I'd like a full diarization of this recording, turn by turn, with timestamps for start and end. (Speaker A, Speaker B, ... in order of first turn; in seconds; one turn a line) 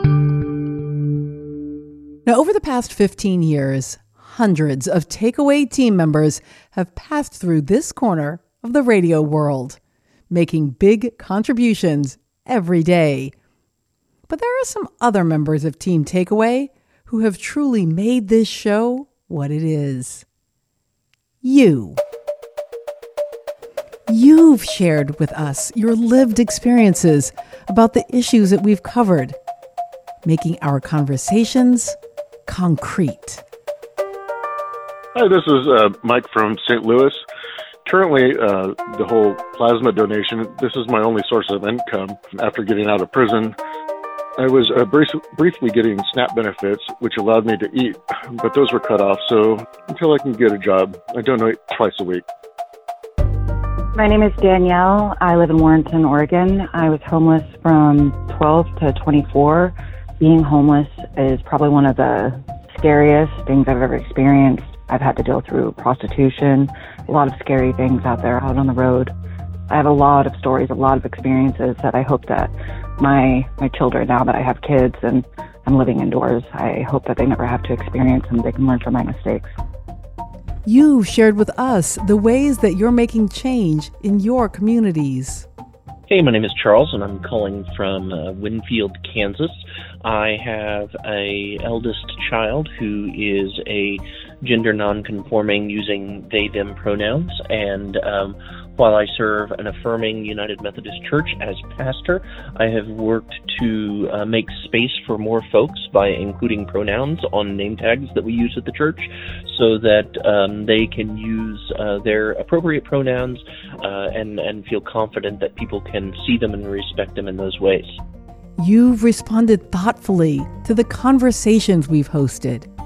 Speaker A: 2.2-9.8
Speaker A: 10.3-13.3
Speaker A: 14.3-20.2
Speaker A: 21.4-22.0
Speaker A: 24.1-29.4
Speaker A: 30.2-31.9
Speaker A: 32.5-33.4
Speaker B: 35.1-37.2
Speaker B: 37.9-43.5
Speaker B: 44.4-52.2
Speaker C: 53.9-69.1
Speaker C: 69.7-79.5
Speaker A: 80.6-85.5
Speaker D: 86.1-118.0
Speaker A: 118.6-122.7